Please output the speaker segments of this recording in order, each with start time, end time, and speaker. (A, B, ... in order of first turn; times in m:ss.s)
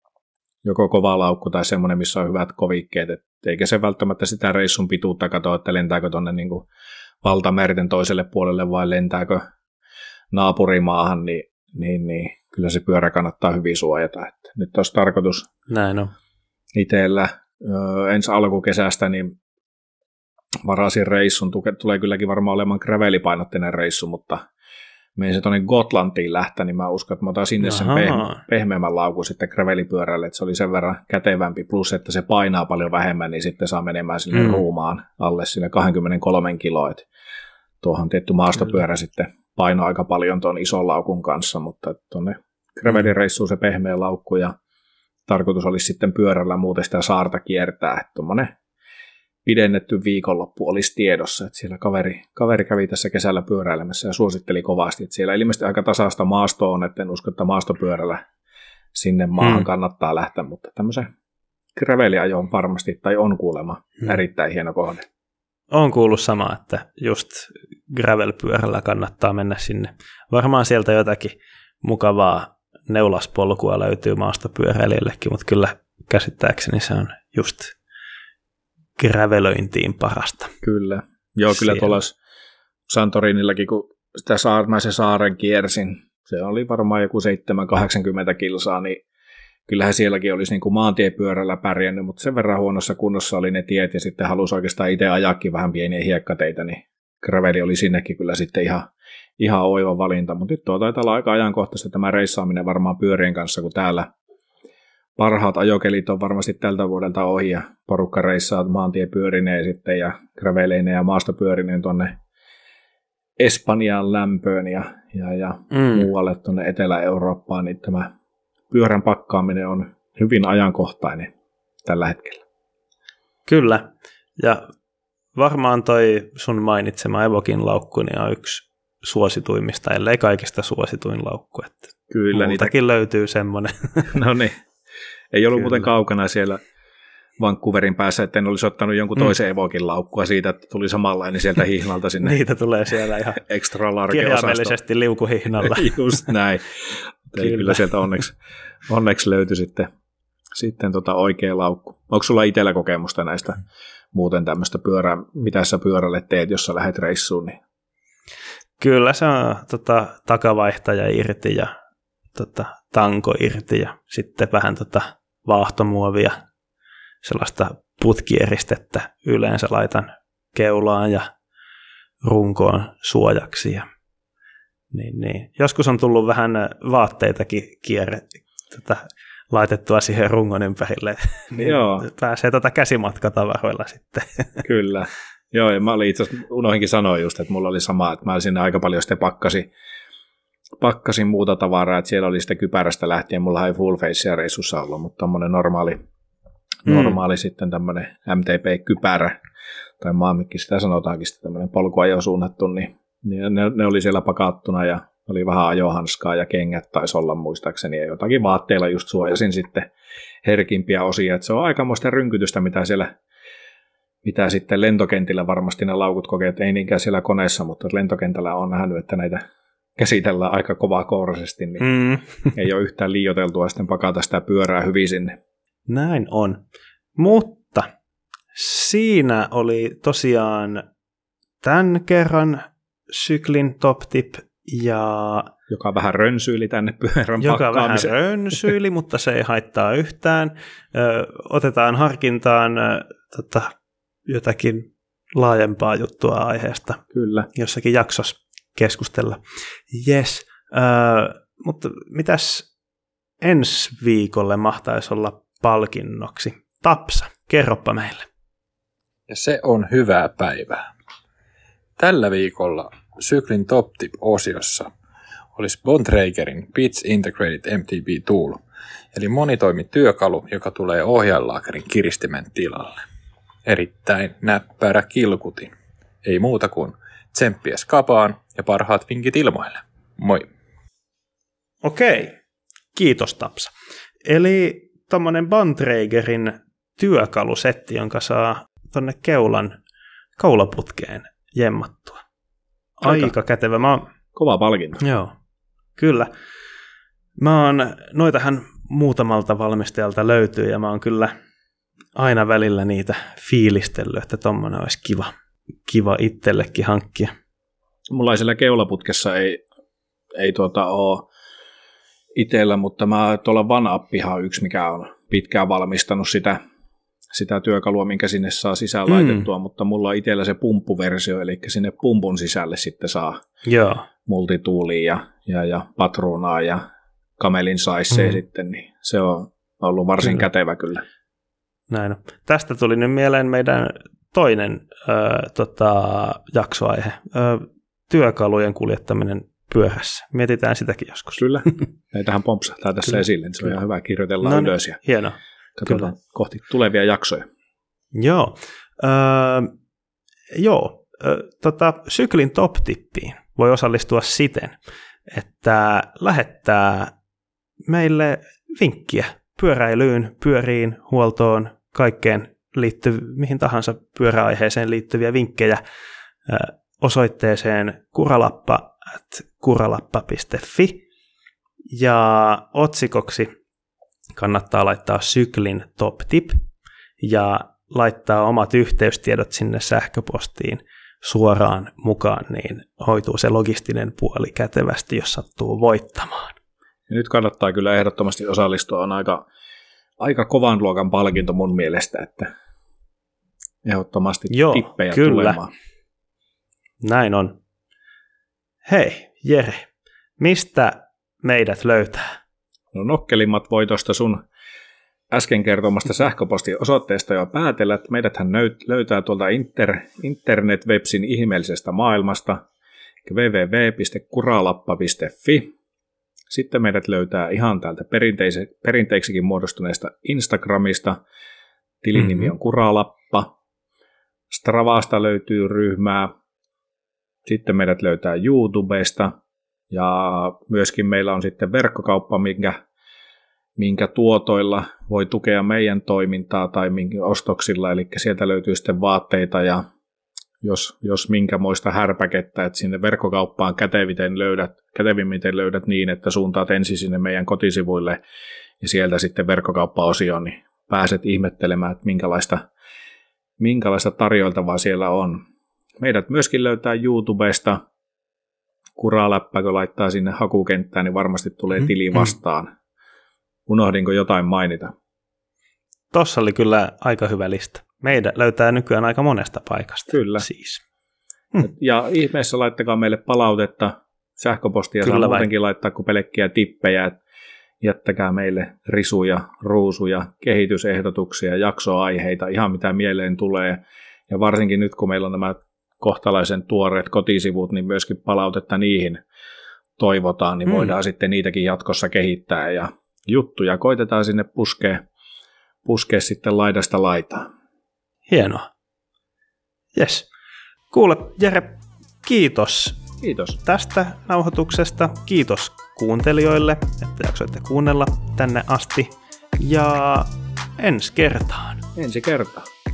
0:00.6-0:06.7 A
0:07.2-0:09.4 A
0:10.3-0:15.5 A
0:15.7-0:16.1 B
0:16.7-0:19.4 A
0:20.6-0:24.4 A
0:25.2-0:37.1 A
0:27.6-0:28.4 B
0:34.3-0:34.6 B
0:37.8-0:44.5 A
0:45.3-0:48.5 A
0:49.4-0:58.2 A
0:58.9-1:01.1 A
0:59.4-0:59.6 B
1:01.7-1:05.0 A
1:05.7-1:17.7 B
1:19.0-1:20.5 B
1:20.6-1:22.2 A
1:21.5-1:21.9 B
1:22.9-1:29.0 A
1:29.7-1:38.9 A
1:39.4-1:44.1 A
1:45.2-1:52.2 A
1:53.4-1:58.1 A
1:55.7-1:56.1 B
1:58.7-2:01.3 A
2:01.8-2:02.4 A
2:03.4-2:04.7 B
2:05.4-2:14.1 B
2:12.1-2:12.7 A
2:14.1-2:14.5 A
2:15.3-2:16.6 A
2:15.6-2:15.9 B
2:17.4-2:22.4 A
2:22.2-2:23.4 B
2:23.4-2:24.7 A
2:24.1-2:26.2 B
2:25.6-2:28.3 A
2:27.4-2:27.8 B
2:28.9-2:29.9 A
2:30.5-2:37.6 A
2:38.8-2:41.7 B
2:42.3-2:46.4 B
2:47.2-2:51.3 B
2:52.2-2:53.9 B
2:54.9-3:04.6 B
3:01.5-3:02.1 A
3:04.6-3:09.7 A
3:10.8-3:16.0 A
3:16.8-3:19.4 A
3:16.9-3:17.1 B
3:20.0-3:29.9 A
3:30.4-3:33.2 A
3:34.2-3:39.4 A
3:40.0-3:41.9 A
3:41.8-3:42.4 B
3:42.5-3:45.3 A
3:45.9-3:46.6 B
3:47.2-3:47.9 B
3:48.5-3:50.8 B
3:51.6-3:55.5 B
3:55.7-3:58.1 A
3:57.4-4:03.7 B
4:04.3-4:07.0 B
4:07.1-4:07.5 A
4:07.5-4:09.4 B
4:09.9-4:12.7 B
4:13.4-4:18.3 B
4:19.3-4:20.9 C
4:22.0-4:24.9 C
4:25.5-4:28.6 C
4:29.1-4:33.0 C
4:33.6-4:35.7 C
4:36.2-4:40.5 C
4:41.8-4:42.4 B
4:42.9-4:43.7 B
4:44.2-4:49.7 B
4:50.4-4:52.2 B
4:53.0-4:54.1 B
4:53.0-4:53.3 A
4:54.3-4:55.0 A
4:55.0-4:55.3 B
4:56.0-4:56.3 B
4:57.4-5:01.3 B
5:02.2-5:05.3 B
5:05.9-5:07.3 B
5:08.1-5:09.6 A
5:10.4-5:11.3 A
5:12.4-5:16.6 A
5:17.3-5:23.4 A
5:19.1-5:19.5 B
5:23.6-5:24.0 B
5:24.2-5:26.8 A
5:27.4-5:31.0 A
5:31.9-5:41.8 B
5:41.4-5:45.0 A
5:44.4-5:46.0 B
5:45.8-5:47.4 A
5:48.1-5:49.7 B
5:50.5-5:54.8 B
5:55.3-5:57.1 B
5:57.9-6:05.8 B
6:06.5-6:11.0 B
6:11.9-6:13.5 B
6:14.4-6:16.6 B
6:17.2-6:26.6 B
6:27.1-6:29.4 A
6:30.2-6:32.5 A
6:33.8-6:35.7 A
6:34.5-6:35.6 B
6:37.0-6:37.6 B
6:38.8-6:39.9 B
6:40.4-6:42.4 B
6:42.9-6:44.4 A
6:45.3-6:52.6 A
6:53.2-6:55.7 A
6:56.5-7:01.2 A
7:02.0-7:03.5 A
7:04.5-7:06.3 A
7:07.4-7:09.3 A
7:09.9-7:12.8 A
7:13.8-7:19.8 A
7:20.6-7:28.2 A
7:28.8-7:32.7 A
7:33.6-7:35.4 A
7:36.0-7:37.8 A
7:39.0-7:42.7 A
7:43.7-7:44.9 A
7:46.1-7:50.8 B
7:50.1-7:50.4 A
7:51.6-7:57.2 A
7:55.0-7:55.5 B
7:57.8-8:09.2 A
8:10.0-8:15.0 A
8:10.7-8:10.9 B
8:15.8-8:17.5 A
8:18.3-8:18.6 B
8:19.9-8:20.3 B
8:20.9-8:23.0 B
8:23.2-8:23.6 A
8:23.6-8:31.8 B
8:31.9-8:32.7 A